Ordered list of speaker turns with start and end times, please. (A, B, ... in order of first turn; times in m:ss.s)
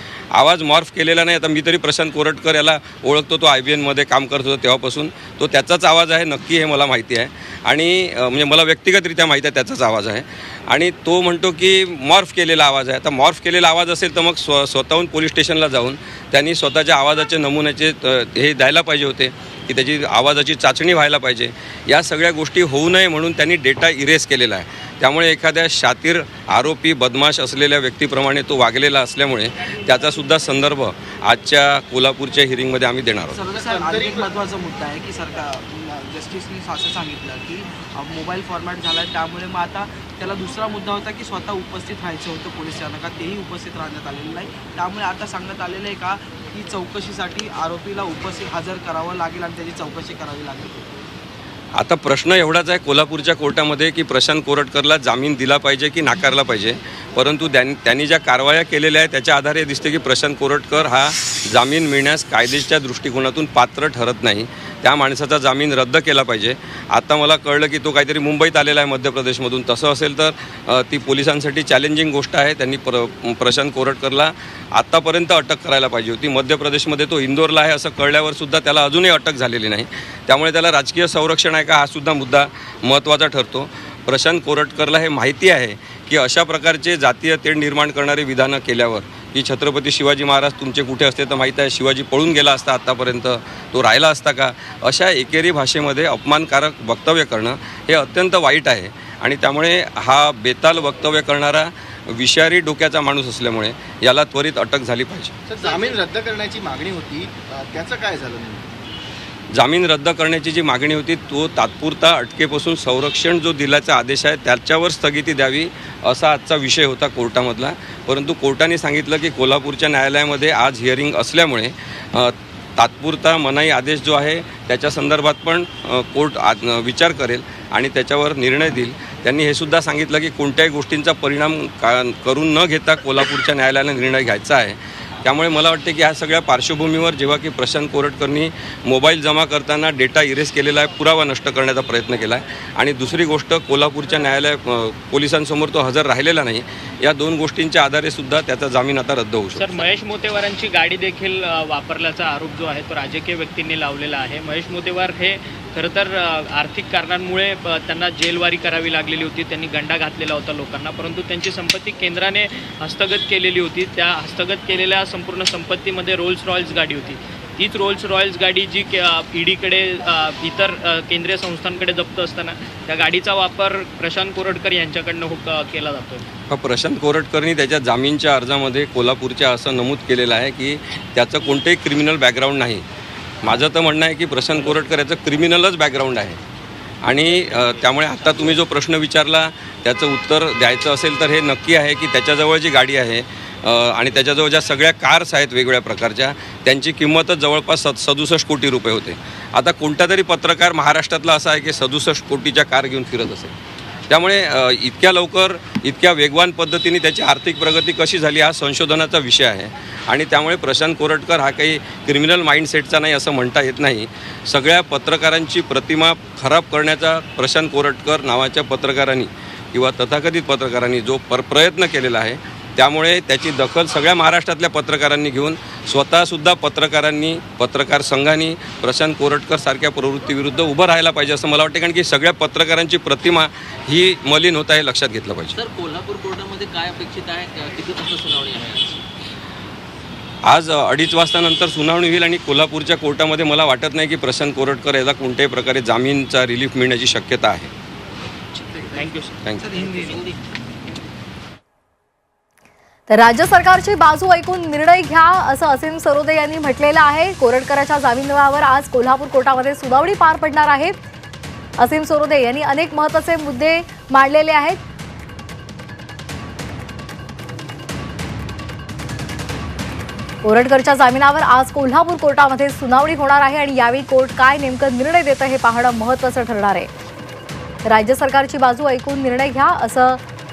0:00.3-0:33.4 A
0:33.3-0:50.9 B
0:33.5-0:34.3 C
0:51.8-1:45.4 A
1:45.5-1:48.7 C
1:49.5-2:29.8 A
2:29.6-2:56.2 D
2:56.5-3:02.8 A
3:03.4-3:06.4 A
3:07.0-3:23.6 A
3:24.1-3:55.6 A
3:55.5-3:59.0 E
4:00.5-4:07.7 A
4:08.6-4:10.2 D
4:09.6-4:10.3 B
4:13.1-4:21.0 F
4:21.8-4:24.8 F
4:30.4-4:36.9 F
4:37.9-4:40.2 F